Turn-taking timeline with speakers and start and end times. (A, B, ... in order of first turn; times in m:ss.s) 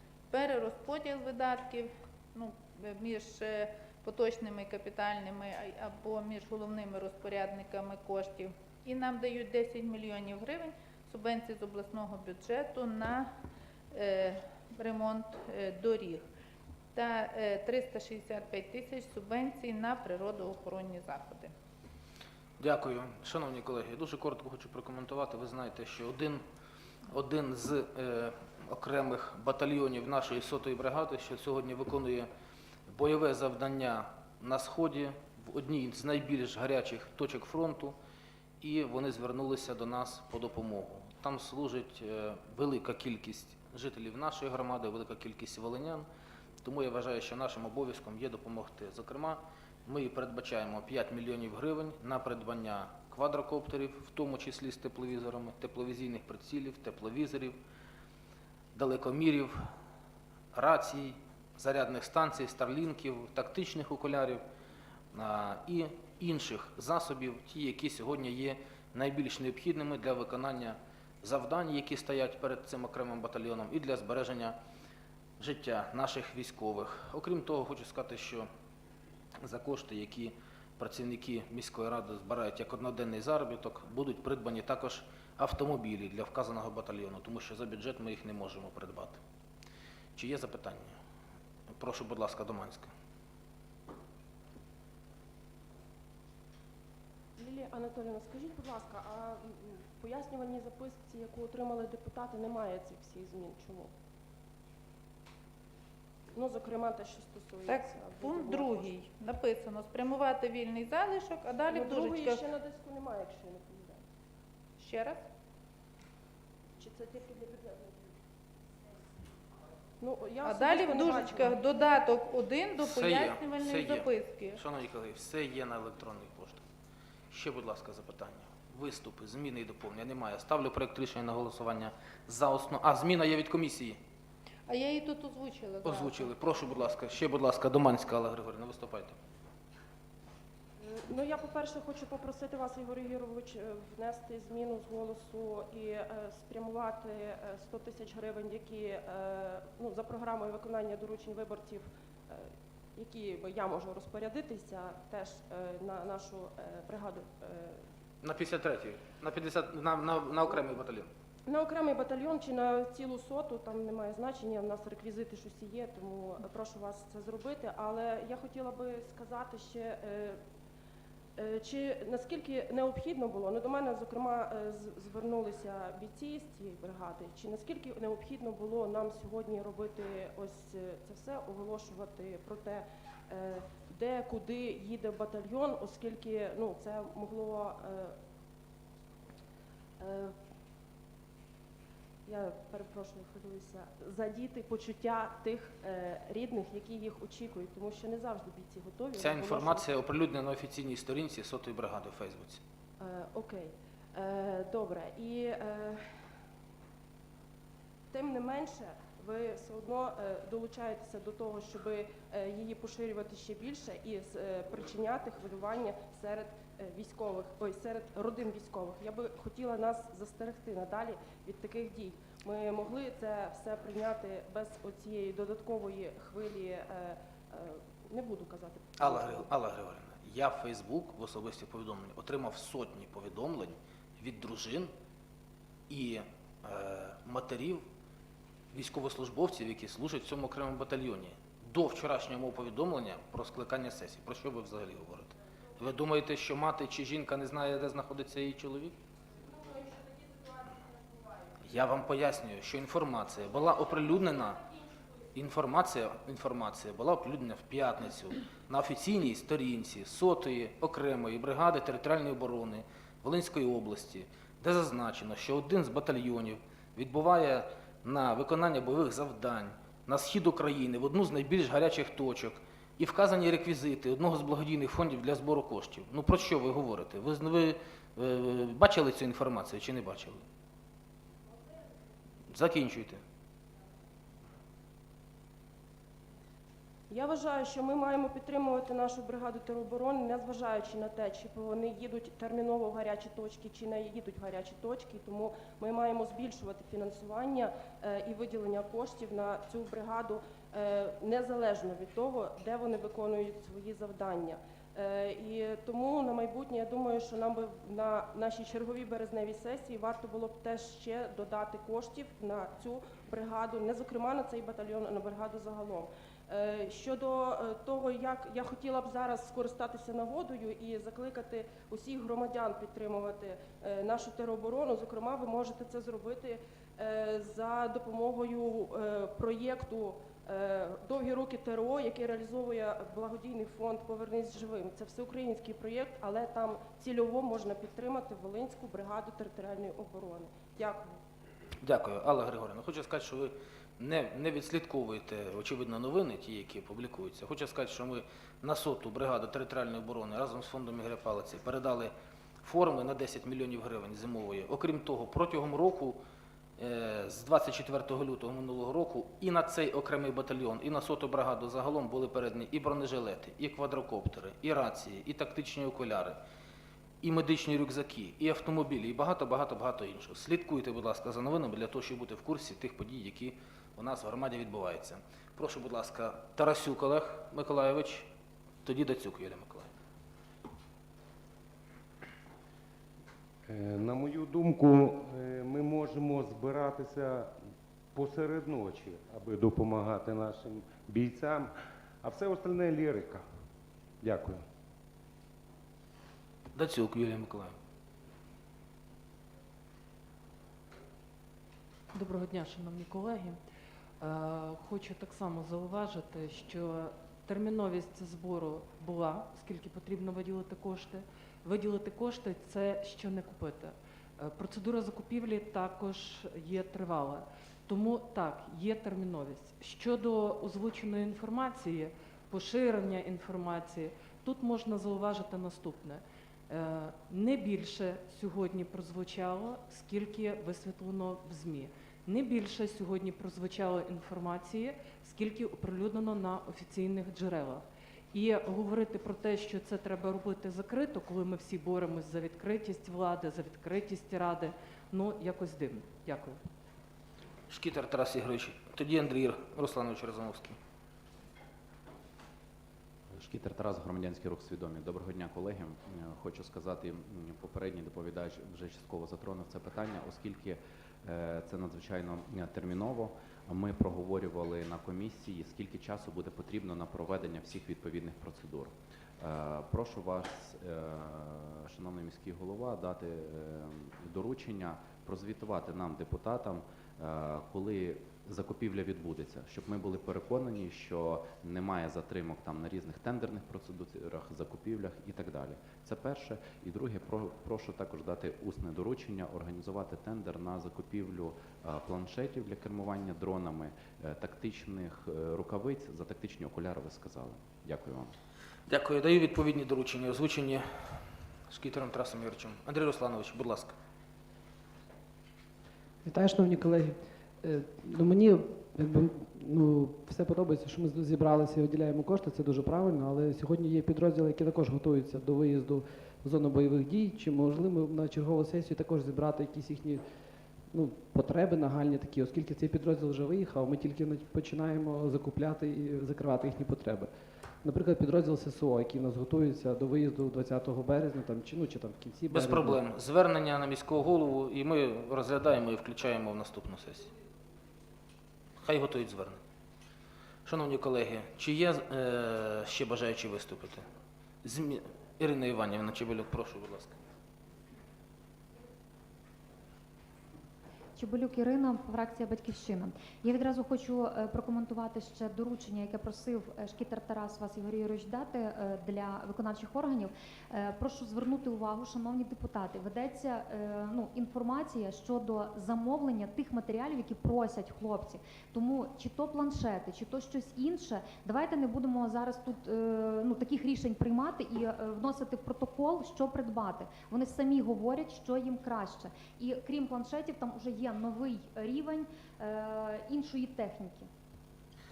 0:00.3-0:13.3 A
0:13.9-0:16.2 A
0:16.9-0:21.5 A
0:22.6-0:26.4 B
0:27.1-0:32.3 B
0:32.9-0:37.9 B
0:38.6-0:46.0 B
0:46.6-0:57.6 B
0:58.7-0:59.6 B
1:00.5-1:04.4 B
1:05.1-1:14.6 B
1:15.4-1:18.5 B
1:19.4-1:29.2 B
1:30.2-1:30.9 B
1:31.8-1:32.9 B
1:37.4-1:43.9 C
1:46.3-1:48.9 C
1:47.6-1:52.5 A
1:51.7-1:54.0 C
1:54.8-1:55.2 A
1:56.8-1:58.2 C
2:00.0-2:01.6 C
2:00.4-2:04.6 A
2:02.8-2:06.6 B
2:07.3-2:14.0 B
2:14.7-2:16.3 A
2:15.8-2:19.2 B
2:20.8-2:37.8 C
2:38.2-2:41.1 B
2:41.5-2:50.4 C
2:51.4-3:08.1 C
3:10.0-3:10.3 C
3:12.2-3:19.9 C
3:19.2-3:22.6 B
3:23.0-3:26.0 C
3:28.1-3:49.5 C
3:49.0-3:54.9 B
3:55.9-3:57.8 B
3:58.7-4:08.9 B
4:09.6-4:10.6 C
4:11.6-4:14.6 B
4:15.3-4:40.4 B
4:42.5-4:43.2 B
4:47.1-5:41.2 C
5:41.8-5:56.2 B
5:56.8-6:06.4 B
6:07.2-6:18.3 B
6:18.8-6:19.9 B
6:23.7-6:27.5 D
6:28.1-6:33.4 D
6:34.2-6:34.6 D
6:36.7-6:37.7 B
6:42.1-6:43.6 E
6:44.2-7:26.6 E
7:27.7-7:30.8 B
7:33.3-8:18.3 F
8:18.9-8:23.9 B
8:26.2-8:40.2 G
8:40.9-8:47.3 G
8:47.8-8:53.0 G
8:52.5-8:57.3 B
8:58.8-8:59.6 B
9:00.6-9:04.0 B
9:04.6-9:07.2 B
9:11.2-9:44.3 H